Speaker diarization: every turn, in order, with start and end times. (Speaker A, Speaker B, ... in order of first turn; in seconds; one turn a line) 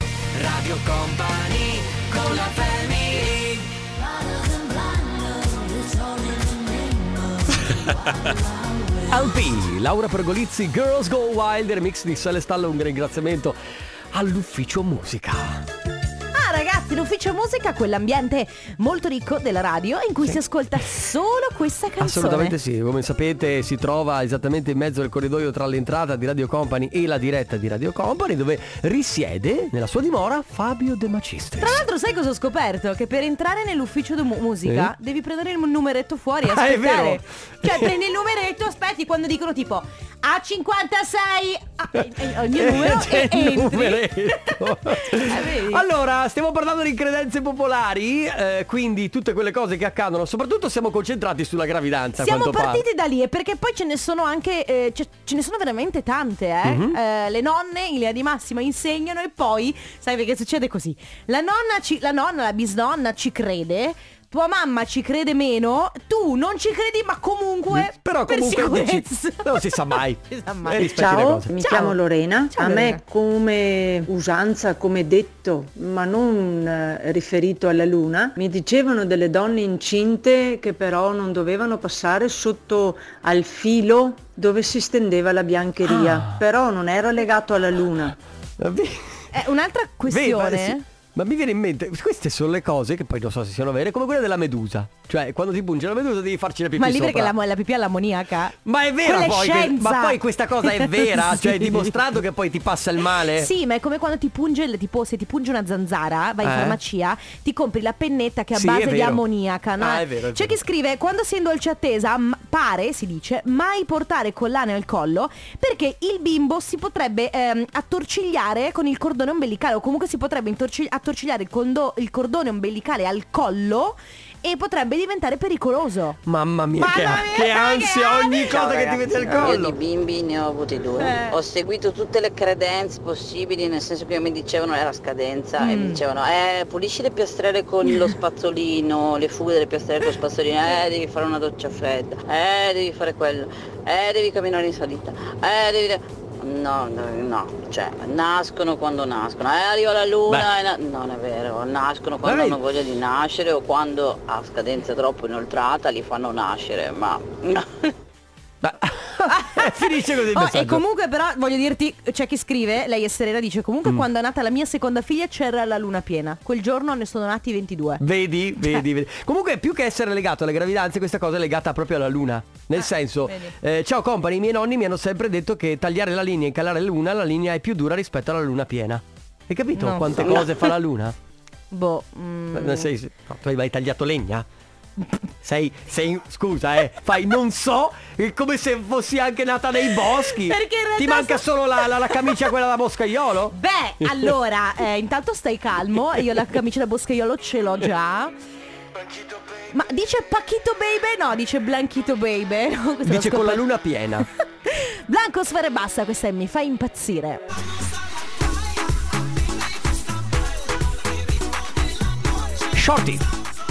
Speaker A: 0.4-9.3
Speaker B: 1.1-1.8
Speaker B: 9.1-13.6
Speaker B: 14.1-15.7
Speaker C: 16.3-22.5
Speaker B: 22.0-31.8
Speaker C: 31.6-45.8
Speaker B: 34.6-34.9
Speaker B: 36.4-37.9
Speaker B: 42.1-52.8
Speaker C: 52.2-73.0
Speaker B: 56.6-57.0
Speaker B: 67.7-71.5
Speaker D: 70.8-88.2
Speaker B: 85.9-86.4
Speaker B: 88.6-89.2
Speaker C: 89.3-90.8
Speaker B: 90.1-97.3
Speaker C: 96.8-101.8
Speaker B: 98.6-103.5
Speaker C: 103.3-126.2
Speaker B: 106.4-106.8
Speaker B: 108.5-109.2
Speaker B: 109.8-110.6
Speaker B: 126.2-129.8
Speaker C: 126.8-129.5
Speaker E: 128.5-157.9
Speaker C: 131.0-131.3
Speaker C: 135.6-136.0
Speaker B: 152.2-152.6
Speaker B: 158.6-160.8
Speaker C: 159.3-168.0
Speaker B: 168.0-181.2
Speaker C: 172.8-173.5
Speaker C: 179.8-180.7
Speaker C: 181.7-182.9
Speaker B: 182.5-184.4
Speaker B: 185.4-194.3
Speaker C: 190.1-192.4
Speaker C: 193.5-198.3
Speaker C: 199.7-203.6
Speaker B: 203.0-204.3
Speaker C: 204.6-207.4
Speaker B: 212.7-213.3